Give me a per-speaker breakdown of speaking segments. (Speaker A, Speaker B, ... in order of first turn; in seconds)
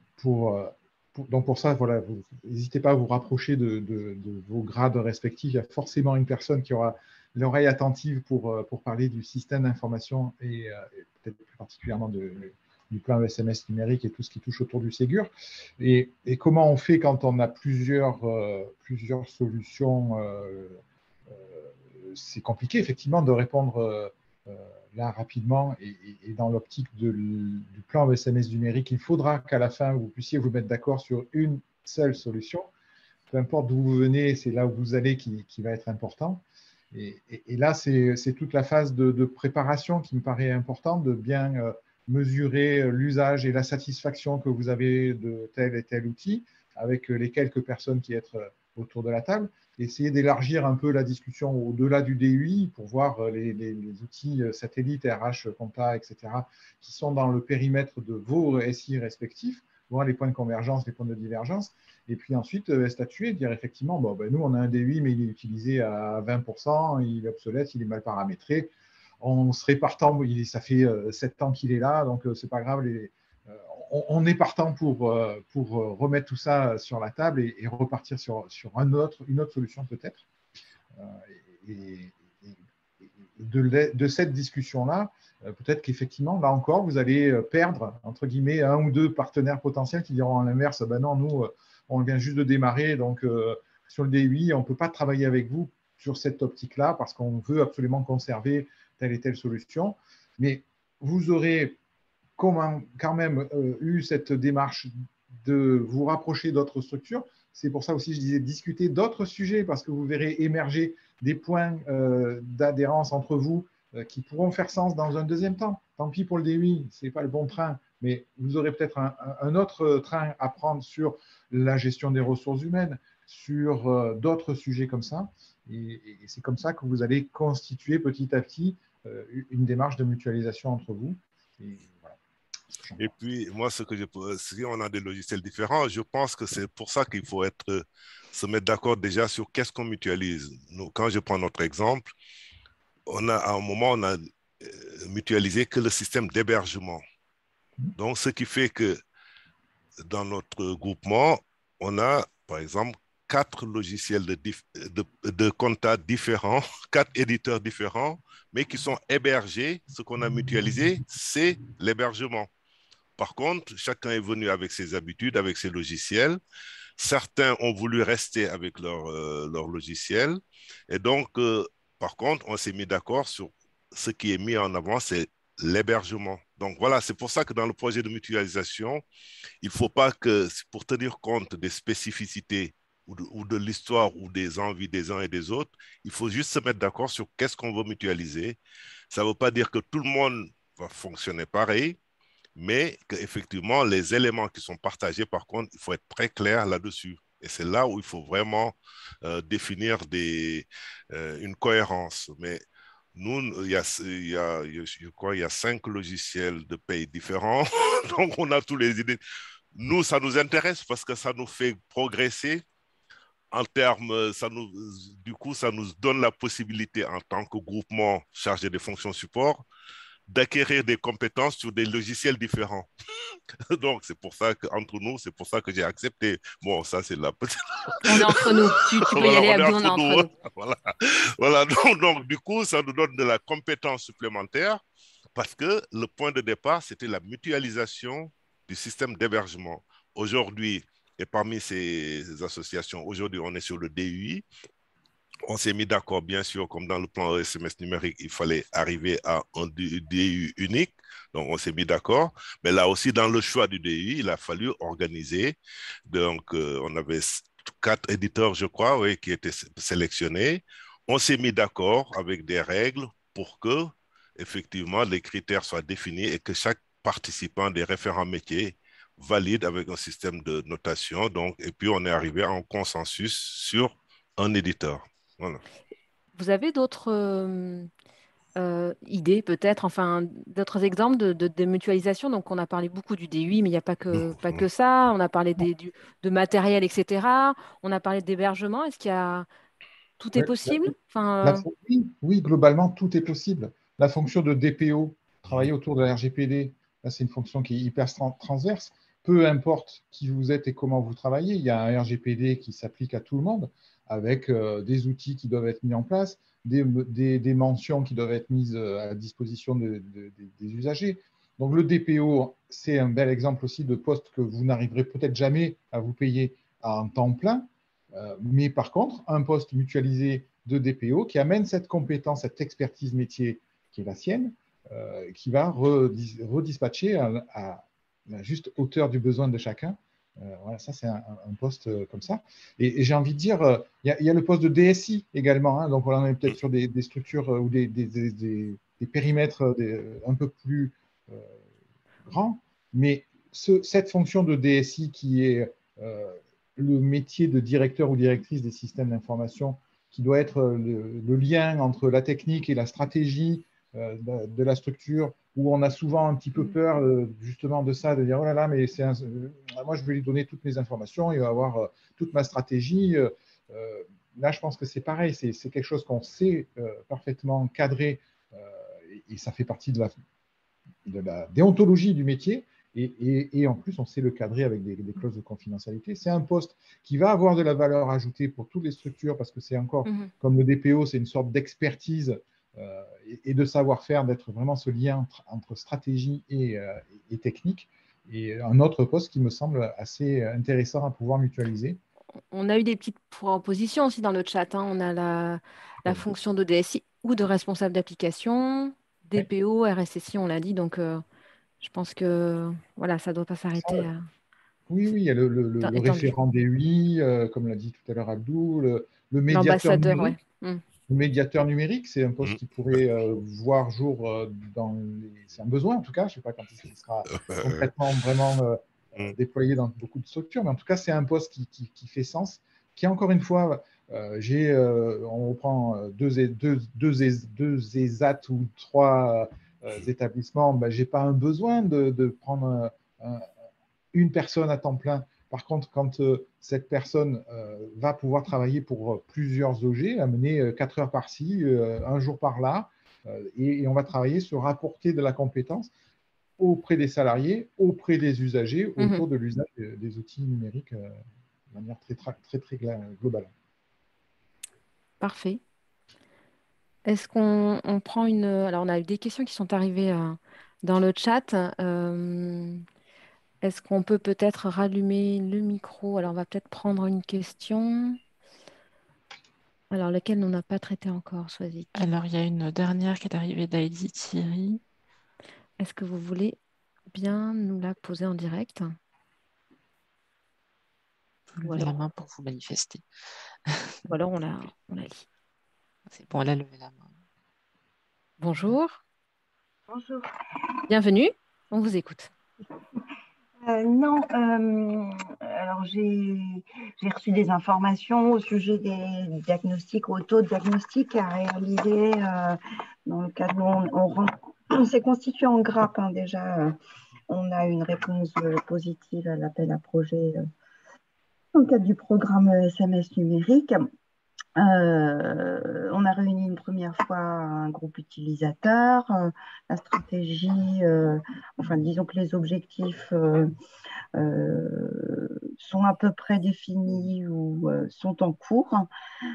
Speaker A: 0.2-32.7, 33.3-80.2, 80.9-82.6, 83.3-101.8, 102.4-104.9, 105.4-132.2, 132.8-133.1, 290.3-341.5, 342.2-370.1, 371.1-392.0, 403.8-404.1, 404.9-410.4, 411.1-433.4, 434.1-445.9, 446.6-451.1, 451.7-453.5
Speaker B: 133.0-142.1, 143.1-147.0, 148.0-149.0, 150.0-162.5, 163.2-166.4, 167.0-179.0, 179.6-188.6, 189.1-192.0, 192.6-202.6, 203.2-209.2, 209.8-212.6, 213.5-219.6, 220.3-222.9, 223.7-234.8, 235.3-244.4, 245.5-275.6, 284.2-284.6, 417.3-417.9
Speaker C: 228.0-230.3, 276.4-277.9, 278.6-289.5, 290.2-291.6, 380.1-380.3, 392.5-401.2, 401.8-404.3, 405.8-406.3, 409.5-410.8, 449.0-449.2, 455.2-455.6, 457.1-462.8, 463.6-468.2, 469.9-471.9, 475.8-476.6, 477.1-478.9, 481.6-481.9, 484.1-485.2, 488.4-489.0, 490.9-492.3
Speaker D: 471.9-474.8, 481.5-483.1, 483.7-483.9, 486.1-487.1
Speaker E: 489.9-490.2, 493.6-506.7, 507.3-510.4, 511.5-513.9, 514.6-523.5, 524.2-528.9